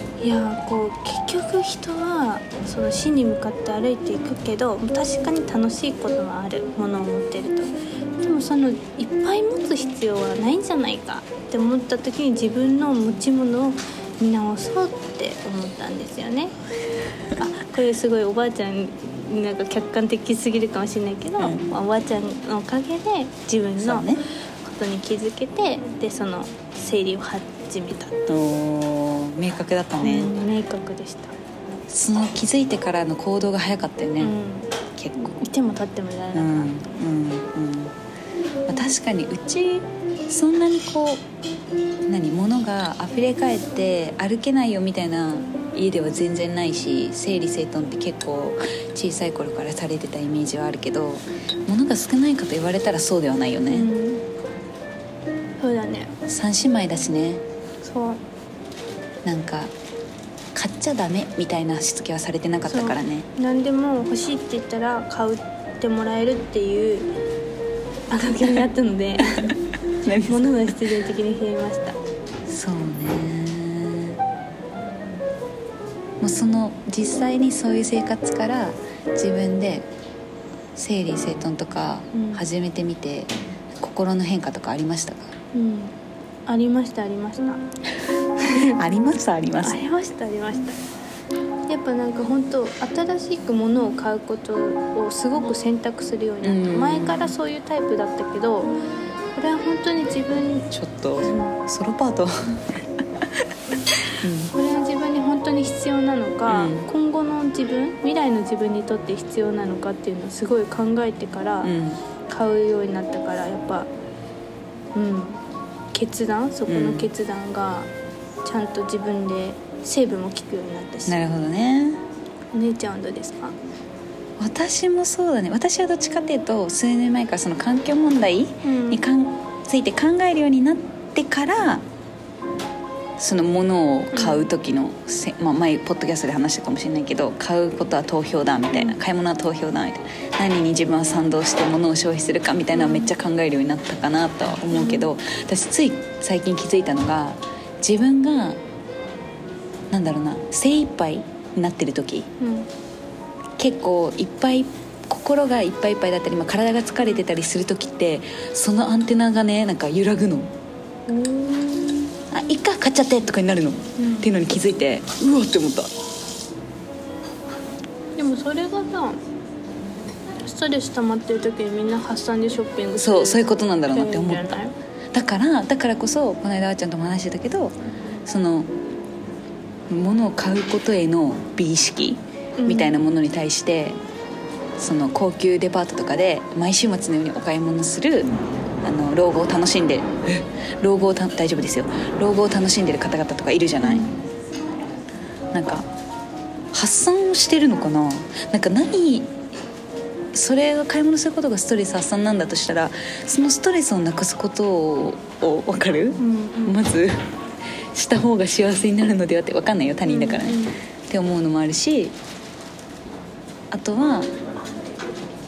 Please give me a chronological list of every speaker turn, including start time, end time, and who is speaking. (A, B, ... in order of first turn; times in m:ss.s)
0:00.2-0:16.5 A
0:17.4-0:28.2 A
0:21.4-0:21.7 B
0:23.8-0:24.2 B
0:28.3-0:30.3 B
0:30.0-0:31.4 A
0:31.9-0:34.4 B
0:34.2-0:36.8 A
0:35.0-0:35.4 B
0:36.3-0:37.9 B
0:38.7-0:41.2 B
0:42.1-0:53.9 B
0:53.7-0:54.2 A
0:55.6-0:56.2 A
0:56.3-0:57.4 B
0:57.8-0:58.2 A
0:59.2-0:59.7 B
1:00.6-1:03.3 B
1:02.7-1:07.1 A
1:08.1-1:09.6 A
1:09.5-1:10.8 B
1:10.2-1:12.0 A
1:12.5-1:14.2 B
1:16.2-1:19.9 B
1:20.8-1:25.4 B
1:22.1-1:22.4 A
1:25.5-1:26.0 A
1:26.5-1:27.6 A
1:28.4-1:29.8 B
1:28.4-1:28.8 A
1:29.6-1:30.8 A
1:31.7-1:38.7 A
1:36.4-1:37.3 B
1:39.3-1:40.7 A
1:40.7-1:42.8 B
1:41.2-1:41.6 A
1:44.1-1:44.5 B
1:44.5-1:51.7 A
1:46.5-1:46.9 B
1:51.6-1:52.0 B
1:52.3-1:53.9 A
1:54.9-1:57.9 A
1:56.7-1:57.1 B
1:58.4-2:01.2 A
2:01.1-2:02.0 B
2:02.5-2:03.6 A
2:04.4-2:11.8 B
2:08.6-2:09.0 A
2:13.2-2:28.6 B
2:14.1-2:14.5 A
2:18.7-2:19.0 A
2:22.7-2:23.1 A
2:24.7-2:25.1 A
2:29.9-2:32.3 B
2:32.4-2:32.7 A
2:33.6-2:40.5 B
2:41.1-2:42.1 A
2:42.3-2:45.9 B
2:44.0-2:44.4 A
2:48.2-2:49.2 A
2:50.4-2:54.8 A
2:52.9-2:54.6 B
2:55.1-2:57.8 B
2:58.3-2:58.7 B
2:59.9-3:04.0 B
3:02.6-3:03.0 A
3:04.8-3:08.3 B
3:08.8-3:14.1 B
3:13.8-3:14.1 A
3:15.5-3:15.9 B
3:16.7-3:19.3 B
3:20.3-3:27.2 B
3:26.2-3:26.8 A
3:27.9-3:32.2 B
3:30.0-3:30.8 A
3:33.7-3:34.3 B